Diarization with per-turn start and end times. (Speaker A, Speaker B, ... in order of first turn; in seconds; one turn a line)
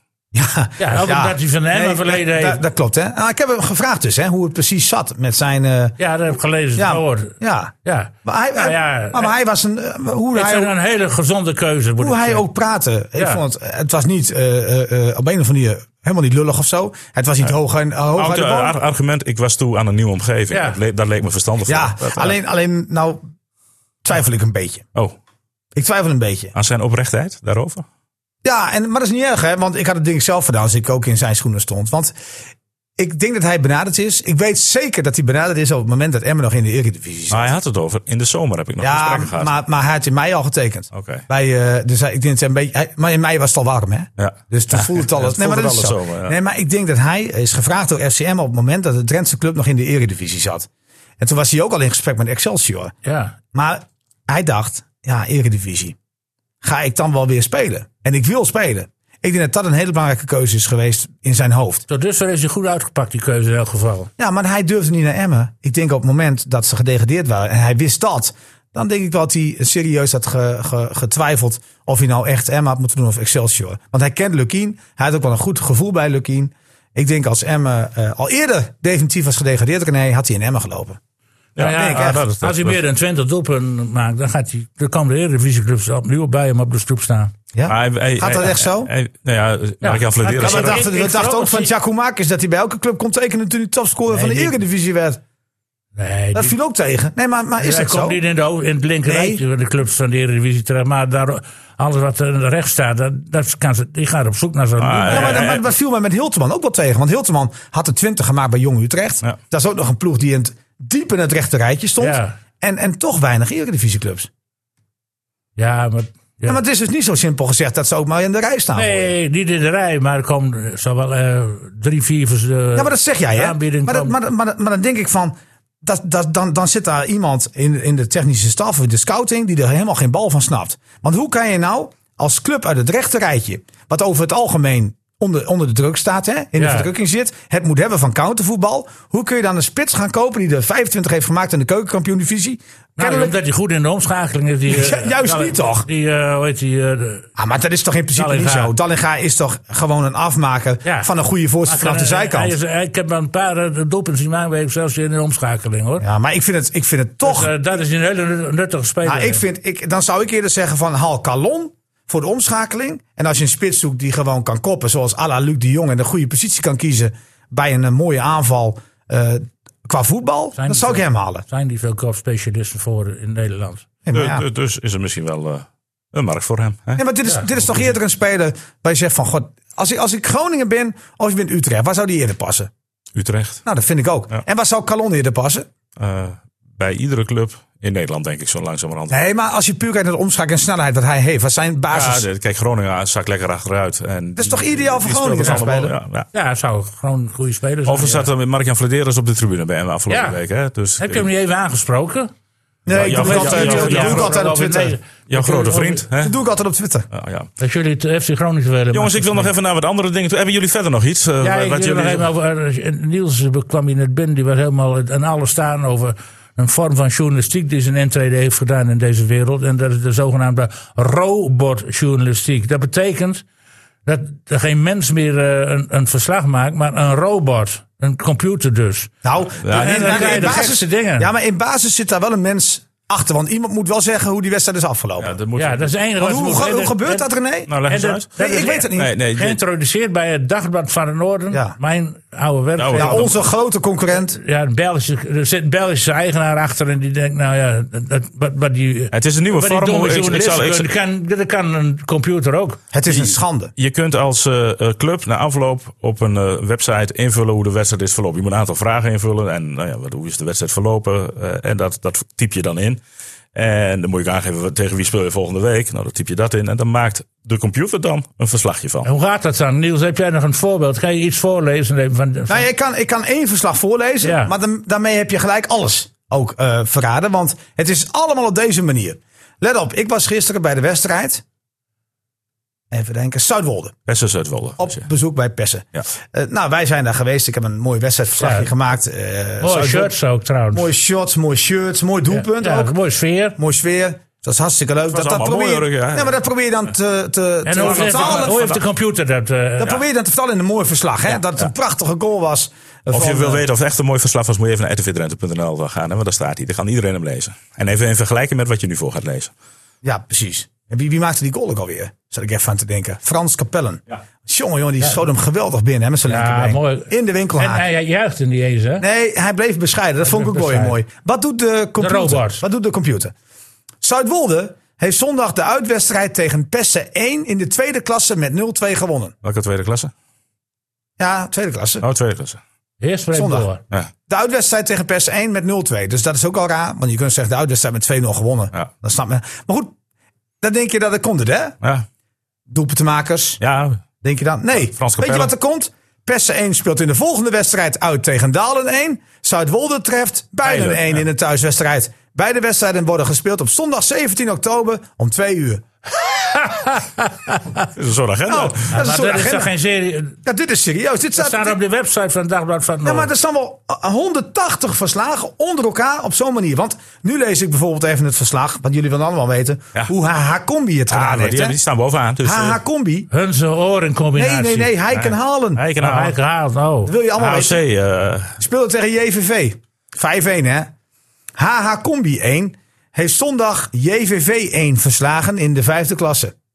Speaker A: 0.3-6.0
Speaker B: 0.8-2.6
Speaker B: 6.0-9.3
Speaker A: 6.8-7.7
Speaker A: 8.2-10.7
Speaker B: 10.3-12.4
Speaker A: 12.0-18.8
Speaker C: 18.1-22.4
Speaker B: 20.5-20.8
Speaker A: 21.6-23.2
Speaker A: 24.0-24.9
Speaker A: 25.7-26.5
Speaker C: 26.5-27.8
Speaker A: 28.4-32.1
Speaker A: 33.0-37.5
Speaker C: 37.3-39.5
Speaker A: 38.8-50.7
Speaker C: 40.9-41.2
Speaker C: 44.2-46.4
Speaker A: 51.2-52.9
Speaker B: 53.0-53.4
Speaker A: 53.5-56.0
Speaker A: 56.6-61.9
Speaker B: 61.9-64.1
Speaker A: 64.2-81.0
Speaker C: 81.5-82.8
Speaker B: 81.6-87.3
Speaker A: 81.7-82.2
Speaker A: 87.5-88.9
Speaker C: 87.7-90.8
Speaker B: 89.8-91.7
Speaker A: 90.4-95.2
Speaker B: 94.1-94.5
Speaker B: 96.0-96.5
Speaker A: 96.3-98.2
Speaker B: 97.6-105.4
Speaker A: 99.0-99.4
Speaker C: 104.8-105.6
Speaker A: 105.1-114.3
Speaker B: 112.0-112.4
Speaker B: 115.6-116.6
Speaker A: 116.4-119.1
Speaker B: 118.7-124.2
Speaker A: 122.8-143.4
Speaker B: 136.6-136.9
Speaker B: 143.0-147.3
Speaker A: 144.7-145.9
Speaker A: 147.3-152.6
Speaker B: 148.1-148.7
Speaker B: 151.6-156.1
Speaker A: 156.0-157.5
Speaker B: 157.2-159.4
Speaker A: 159.0-171.4
Speaker B: 170.5-173.9
Speaker A: 174.0-174.4
Speaker C: 174.1-177.0
Speaker A: 177.0-182.7
Speaker B: 177.2-177.6
Speaker C: 183.1-183.6
Speaker A: 183.6-185.7
Speaker C: 186.0-189.2
Speaker A: 189.1-192.2
Speaker C: 191.9-196.3
Speaker A: 194.3-195.9
Speaker B: 196.3-198.3
Speaker C: 197.8-201.3
Speaker B: 200.1-200.4
Speaker B: 201.0-202.3
Speaker A: 202.8-205.0
Speaker C: 202.9-204.5
Speaker B: 203.0-206.0
Speaker C: 205.3-206.3
Speaker A: 206.2-207.1
Speaker C: 207.1-207.5
Speaker B: 207.6-209.5
Speaker C: 208.9-212.3
Speaker B: 211.4-223.4
Speaker B: 224.0-229.1
Speaker A: 229.2-235.3
Speaker C: 229.6-230.6
Speaker B: 229.6-231.3
Speaker C: 235.2-235.9
Speaker B: 235.6-237.2
Speaker A: 236.2-237.7
Speaker C: 237.7-238.3
Speaker B: 237.8-243.3
Speaker A: 238.4-239.1
Speaker C: 238.9-239.6
Speaker C: 242.8-243.3
Speaker A: 242.9-244.4
Speaker B: 244.2-252.8
Speaker C: 249.1-250.9
Speaker A: 252.9-253.7
Speaker C: 253.1-263.0
Speaker C: 263.5-269.1
Speaker B: 269.0-272.7
Speaker A: 272.5-281.4
Speaker B: 274.2-274.5
Speaker A: 282.9-283.9
Speaker C: 284.1-285.0
Speaker A: 284.8-290.1
Speaker B: 288.4-288.7
Speaker B: 289.6-290.9
Speaker A: 290.7-292.9
Speaker B: 292.3-293.6
Speaker A: 293.6-298.7
Speaker C: 295.1-296.4
Speaker B: 297.6-300.0
Speaker C: 297.8-298.8
Speaker A: 299.8-303.6
Speaker C: 303.1-309.5
Speaker A: 310.0-317.8
Speaker B: 316.3-319.0
Speaker A: 319.0-323.3
Speaker B: 320.2-321.0
Speaker B: 322.0-322.6
Speaker A: 324.0-329.3
Speaker C: 329.4-330.1
Speaker A: 331.2-332.0
Speaker C: 332.0-332.6
Speaker B: 333.0-333.8
Speaker A: 333.3-333.7
Speaker A: 334.3-339.9
Speaker A: 340.6-341.8
Speaker A: 342.7-343.6
Speaker C: 343.6-344.0
Speaker A: 344.2-355.8
Speaker C: 344.8-345.5
Speaker C: 350.6-351.2
Speaker B: 356.3-357.6
Speaker C: 357.8-358.9
Speaker A: 358.5-359.7
Speaker B: 358.9-360.4
Speaker A: 360.4-361.8
Speaker B: 361.4-363.3
Speaker A: 363.0-371.8
Speaker C: 371.1-372.8
Speaker A: 372.4-373.3
Speaker B: 373.3-374.9
Speaker A: 374.4-375.8
Speaker C: 375.1-376.4
Speaker B: 376.0-377.1
Speaker A: 377.1-377.8
Speaker C: 377.4-378.6
Speaker A: 378.6-380.9
Speaker A: 381.6-386.5